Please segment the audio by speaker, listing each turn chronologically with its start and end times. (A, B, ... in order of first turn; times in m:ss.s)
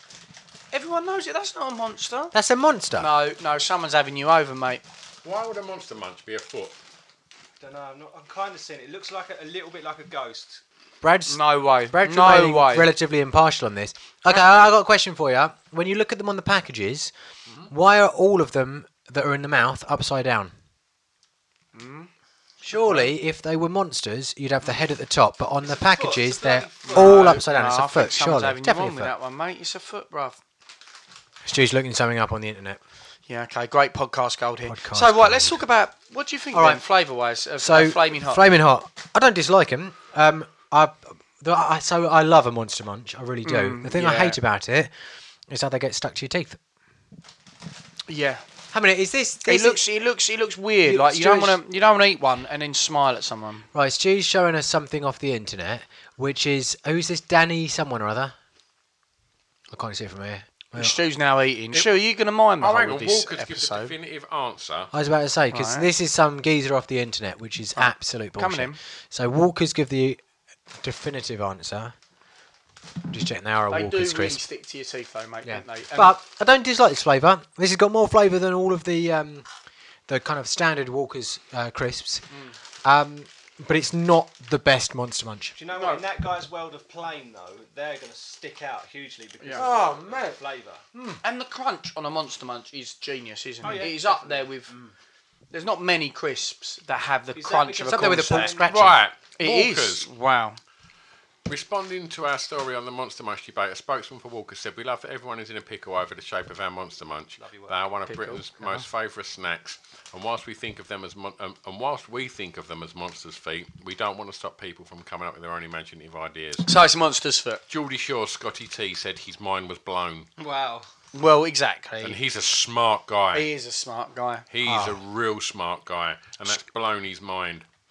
0:00.7-0:02.3 A
0:02.3-0:03.1 B
0:03.0-0:04.8 A
0:05.2-0:06.7 C
0:07.6-0:10.6 D
0:11.0-0:17.1 B
0:11.3-0:12.9 A
0:17.7-0:20.5 B
0:21.7-0:22.1 A
0:22.6-0:29.1 B
0:25.6-0:27.4 D
0:26.9-0:30.4 A
0:31.4-0:32.8 B
0:33.3-0:38.5 A
0:34.6-0:35.6 B
0:36.5-0:36.8 B
0:37.6-0:44.9 B
0:43.4-0:44.4 A
0:45.5-0:46.6 B
0:48.1-0:48.4 A
0:48.7-0:49.8 B
0:49.4-0:53.6 A
0:50.8-0:51.6 B
0:53.7-0:58.3 B
0:59.7-1:01.0 B
1:00.8-1:03.9 A
1:01.7-1:02.0 C
1:02.6-1:04.9 C
1:04.9-1:11.9 B
1:05.5-1:05.9 A
1:07.8-1:08.8 A
1:13.1-1:14.4 B
1:13.7-1:16.2 A
1:15.4-1:19.5 B
1:20.1-1:22.3 B
1:22.8-1:25.6 B
1:25.6-1:30.8 D
1:25.7-1:26.0 A
1:29.4-1:29.7 A
1:29.5-1:30.4 B
1:30.9-1:31.2 B
1:31.2-1:34.7 A
1:33.6-1:34.9 D
1:35.5-1:38.5 A
1:37.3-1:38.7 D
1:37.8-1:39.0 B
1:38.7-1:40.1 C
1:39.4-1:40.6 A
1:41.4-1:56.7 C
1:47.4-1:47.8 D
1:48.1-1:48.8 A
1:56.6-1:57.6 A
1:57.7-2:00.3 C
2:00.4-2:00.9 D
2:01.1-2:02.2 A
2:02.0-2:03.5 C
2:03.3-2:04.4 A
2:04.5-2:07.6 C
2:04.6-2:05.0 B